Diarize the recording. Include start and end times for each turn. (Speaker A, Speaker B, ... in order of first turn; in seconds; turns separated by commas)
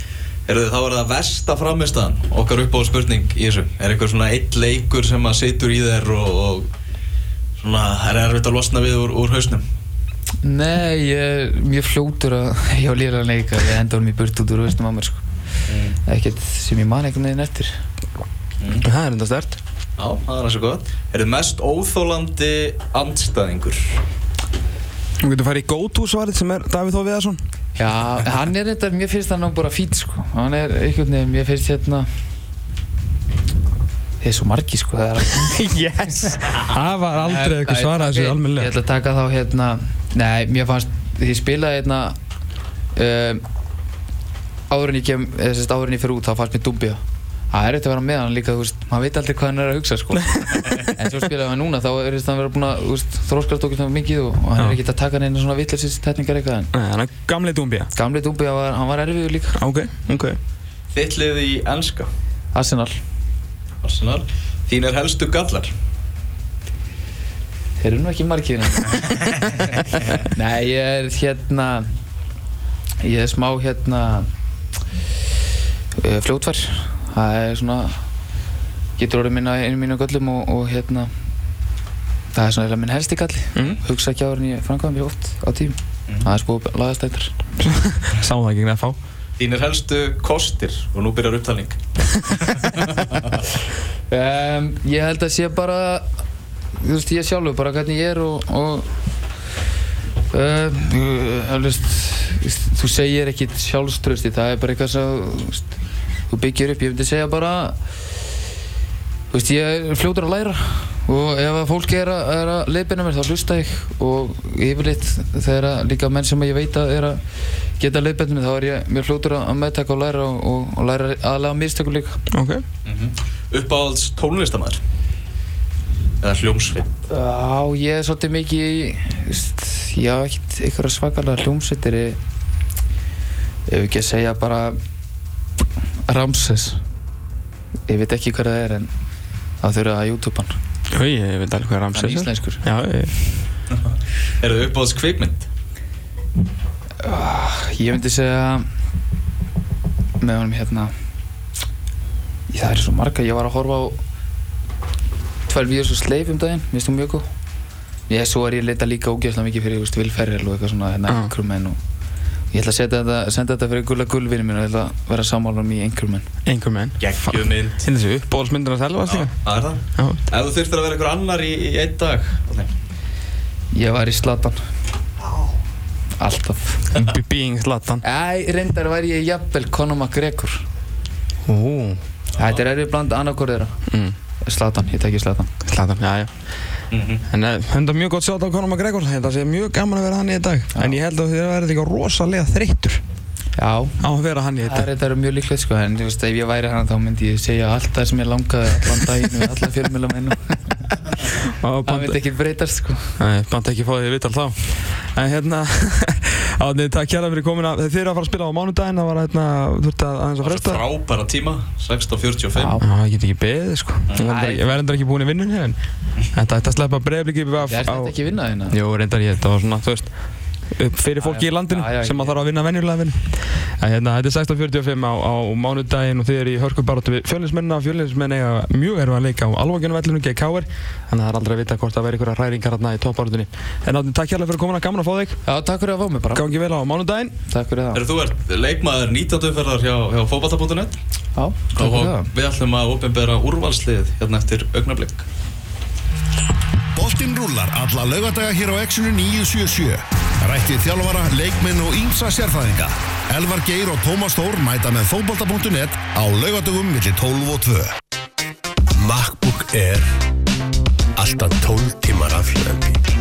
Speaker A: 0.5-6.7, Speaker A: 7.6-9.7, Speaker B: 10.4-15.2, Speaker A: 15.7-16.0, Speaker B: 16.1-17.7, Speaker A: 18.6-18.9, Speaker C: 18.8-19.6, Speaker A: 20.0-24.0, Speaker C: 25.2-27.4, Speaker B: 27.8-32.1, Speaker B: 34.2-35.7, Speaker C: 35.3-38.7, Speaker B: 37.2-42.2, Speaker B: 43.0-43.4, Speaker B: 44.7-56.7, Speaker C: 56.7-57.9, Speaker B: 57.9-59.6, Speaker C: 59.6-60.4, Speaker A: 60.9-62.1, Speaker B: 62.5-63.0, Speaker A: 63.8-65.7, Speaker B: 67.8-69.2, Speaker B: 70.2-71.9, Speaker B: 73.0-74.3, Speaker B: 76.0-78.0, Speaker B: 79.0-81.1, Speaker B: 82.3-87.3, Speaker C: 87.6-89.0, Speaker A: 89.4-93.4, Speaker B: 94.1-96.1, Speaker B: 96.8-98.9, Speaker B: 100.3-105.7, Speaker B: 106.3-107.8, Speaker B: 109.3-117.2, Speaker B: 117.8-122.2, Speaker C: 122.3-122.6, Speaker A: 122.8-124.8, Speaker A: 126.2-126.9, Speaker B: 127.1-132.2, Speaker B: 133.7-134.8, Speaker B: 136.1-136.8, Speaker B: 137.9-138.9, Speaker B: 139.6-140.6, Speaker C: 140.9-143.1, Speaker B: 141.9-142.6, Speaker A: 144.4-145.5, Speaker B: 147.0-148.7, Speaker B: 150.2-150.9, Speaker B: 152.5-154.0, Speaker B: 155.5-157.3, Speaker B: 158.1-161.8, Speaker B: 162.5-166.3, Speaker C: 166.5-169.3, Speaker A: 167.0-167.8, Speaker A: 169.1-172.7, Speaker C: 169.9-170.2, Speaker B: 173.7-174.7, Speaker B: 176.2-177.0, Speaker C: 176.9-178.0, Speaker B: 178.0-180.7, Speaker C: 181.4-182.0, Speaker B: 182.4-183.8, Speaker C: 183.9-184.2, Speaker B: 184.4-185.5, Speaker C: 185.6-186.3, Speaker A: 186.9-187.2, Speaker C: 187.3-193.0, Speaker B: 193.6-194.0, Speaker C: 194.0-194.9, Speaker B: 194.6-201.3, Speaker C: 201.4-202.2, Speaker B: 201.8-203.2, Speaker C: 203.2-210.8, Speaker A: 210.4-212.7, Speaker B: 212.6-212.9, Speaker C: 212.8-215.8, Speaker B: 214.2-214.7, Speaker C: 216.3-218.2, Speaker B: 217.6-218.8, Speaker C: 218.7-220.1, Speaker C: 220.7-235.4, Speaker B: 221.2-222.4, Speaker B: 235.5-236.5, Speaker C: 236.3-237.3, Speaker B: 237.5-238.0, Speaker A: 237.9-241.0, Speaker B: 241.4-242.3, Speaker A: 241.8-245.3, Speaker D: 246.9-257.9, Speaker E: 259.0-260.1, Speaker E: 261.2-263.0